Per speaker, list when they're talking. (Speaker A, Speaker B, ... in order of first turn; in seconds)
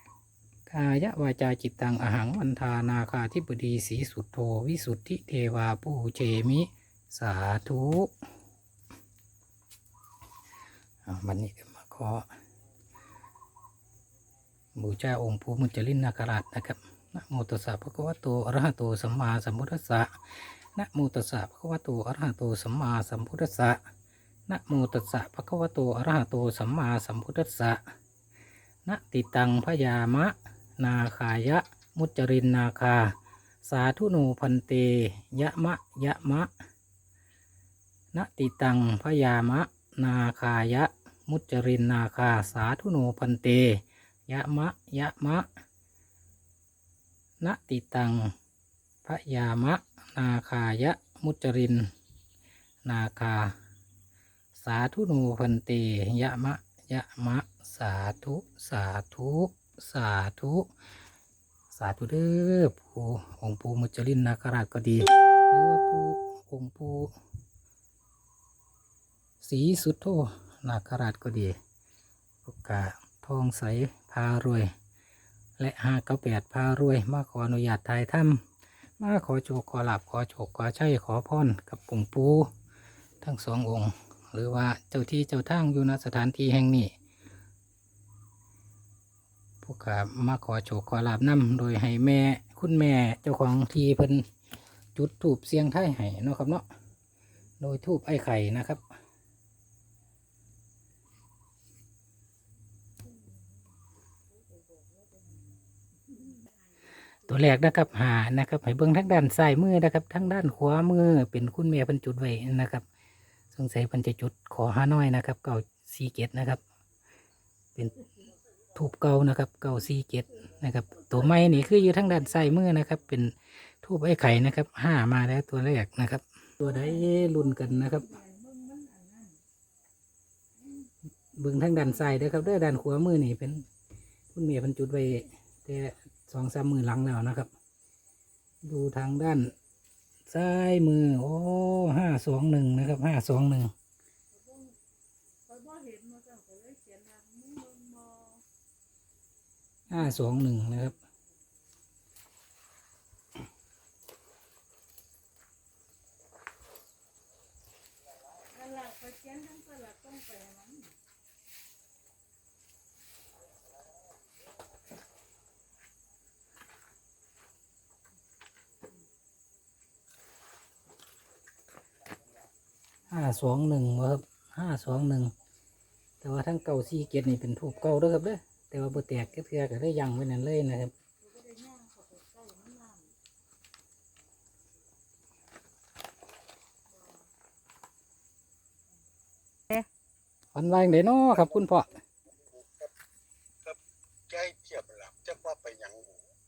Speaker A: 0.7-8.1, 11.1-12.2, 14.8-23.8, 24.5-27.8, 28.9-36.5, 38.1-45.5, 47.4-48.4, 49.0-51.9, 52.9-53.5, 54.6-60.7, 61.7-67.1, 69.4-71.5, 72.5-74.7, 75.6-78.4, 79.0-82.5, 83.2-86.9, 89.6-94.3, 95.0-96.7, 97.6-98.8, 107.2-112.8, 113.5-116.6, 117.8-118.1, 118.8-128.2, 131.4-133.7, 134.3-137.5, 138.6-139.5, 140.3-143.7, 149.9-150.9, 173.1-175.3, 176.2-180.9, 190.5-192.0
Speaker B: 126.8-129.4, 144.3-144.8, 145.5-148.4, 158.5-160.9, 181.2-183.1
Speaker C: 191.3-192.9, 193.6-196.2